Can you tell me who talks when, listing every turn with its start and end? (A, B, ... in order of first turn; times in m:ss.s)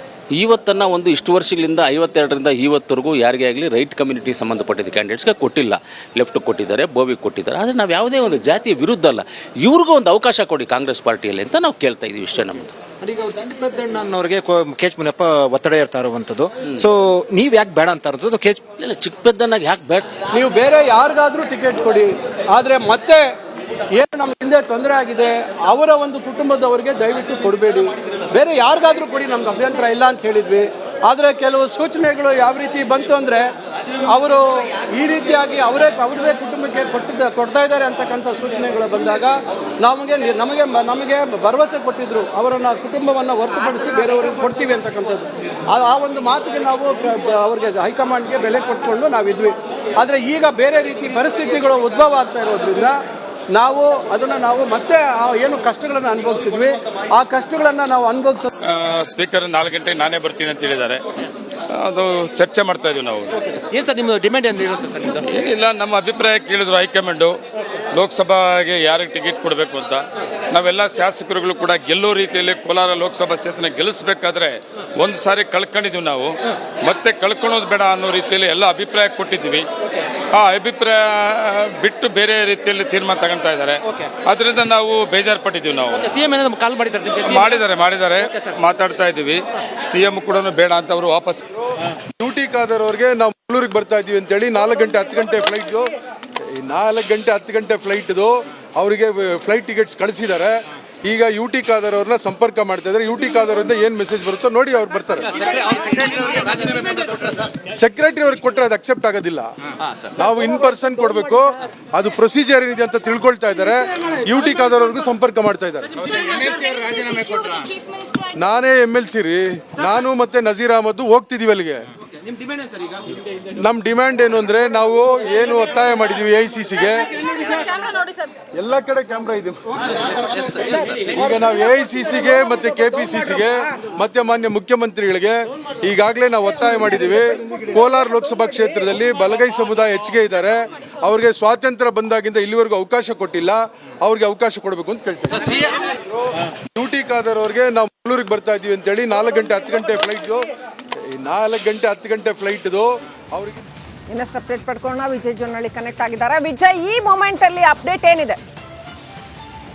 0:00.3-0:12.7 A
0:13.0-0:18.6 B
0:18.8-0:20.3 A
0:20.3-0:23.3 C
0:23.9-0:33.5 C
0:34.1-0:53.0 C
0:53.5-0:58.5 C
0:58.6-1:01.0 D
1:01.7-1:03.4 D
1:03.7-1:05.2 B
1:05.3-1:07.4 D
1:07.9-1:19.7 D
1:20.3-1:26.2 D
1:26.2-1:27.2 B
1:27.2-1:31.4 D
1:32.2-1:35.9 E
1:36.5-1:45.4 E
1:47.7-1:49.5 E
1:50.1-1:56.2 E
1:56.5-1:57.8 D
1:58.1-2:01.8 E
2:03.6-2:07.9 E
2:08.6-2:09.6 E
2:10.9-2:26.2 E
2:26.8-2:30.5 E
2:31.1-2:33.6 E
2:34.1-2:38.4 F